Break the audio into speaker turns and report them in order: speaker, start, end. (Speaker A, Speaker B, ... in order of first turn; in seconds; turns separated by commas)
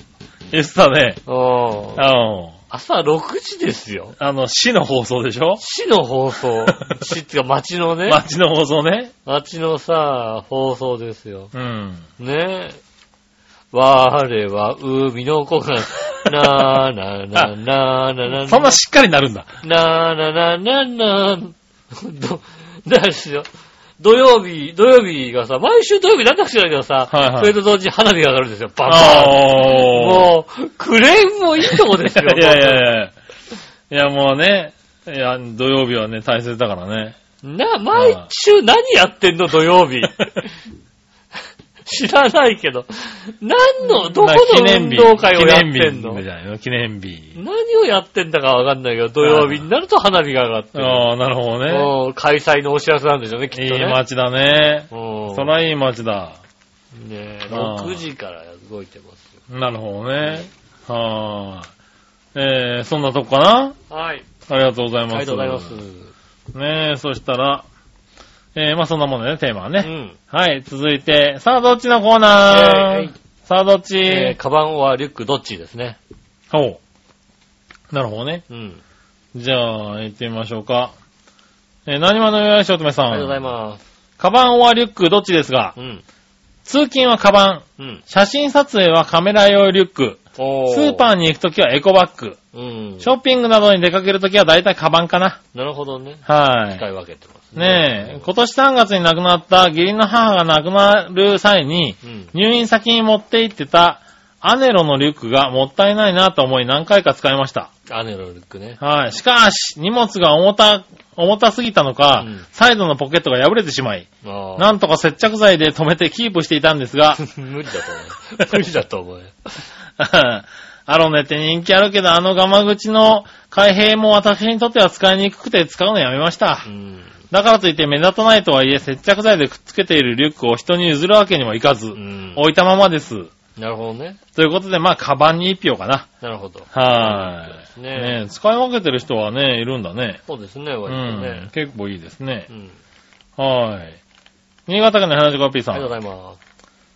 Speaker A: 0.5-1.2, Speaker B: 1.3-2.0, Speaker A: 2.0-2.6, Speaker B: 2.7-4.2, Speaker A: 4.2-5.6, Speaker B: 5.6-8.2, Speaker A: 8.1-9.1, Speaker B: 9.2-11.5, Speaker A: 11.5-12.1, Speaker B: 12.2-12.8, Speaker B: 13.7-18.7, Speaker A: 18.3-19.6, Speaker B: 19.6-23.5, Speaker B: 24.0-32.9, Speaker A: 27.1-27.5, Speaker A: 28.9-30.3, Speaker A: 31.8-33.1, Speaker A: 33.9-37.2, Speaker B: 37.4-40.5, Speaker A: 37.9-38.2, Speaker B: 41.9-46.2, Speaker A: 43.9-47.4, Speaker B: 47.4-51.1, Speaker A: 49.2-49.6, Speaker A: 50.8-51.9, Speaker B: 51.7-54.0, Speaker A: 53.5-56.4, Speaker B: 54.9-55.5, Speaker B: 56.9-59.3, Speaker A: 57.5-58.0, Speaker A: 59.5-61.7, Speaker A: 62.4-63.8, Speaker B: 63.9-64.3, Speaker A: 64.5-65.8, Speaker B: 65.1-66.1, Speaker A: 66.5-67.7, Speaker A: 68.5-74.4, Speaker B: 69.8-70.2, Speaker B: 72.5-73.2, Speaker B: 74.0-76.0, Speaker A: 76.5-76.8, Speaker A: 77.9-78.4, Speaker B: 78.5-78.8, Speaker A: 79.3-80.9, Speaker A: 81.9-83.4, Speaker B: 83.1-83.8, Speaker A: 84.2-85.8, Speaker B: 85.8-86.0, Speaker A: 86.7-92.4, Speaker B: 87.8-88.0, Speaker B: 90.4-91.1, Speaker B: 92.5-93.1, Speaker A: 93.0-95.4, Speaker B: 95.5-98.3, Speaker A: 96.3-96.8, Speaker A: 97.6-107.7, Speaker B: 102.0-102.3, Speaker B: 107.9-108.8, Speaker A: 108.8-117.2, Speaker B: 112.2-112.5, Speaker B: 114.2-114.7, Speaker B: 117.2-119.5, Speaker A: 120.0-126.7, Speaker B: 126.7-127.2, Speaker A: 127.3-133.3, Speaker B: 131.9-132.4, Speaker B: 133.6-134.2, Speaker A: 134.3-136.1, Speaker B: 136.2-138.2, Speaker A: 136.7-140.2, Speaker B: 140.3-141.5, Speaker A: 140.9-142.5, Speaker B: 142.5-142.8, Speaker A: 143.4-144.0, Speaker A: 144.7-145.9, Speaker B: 145.7-146.4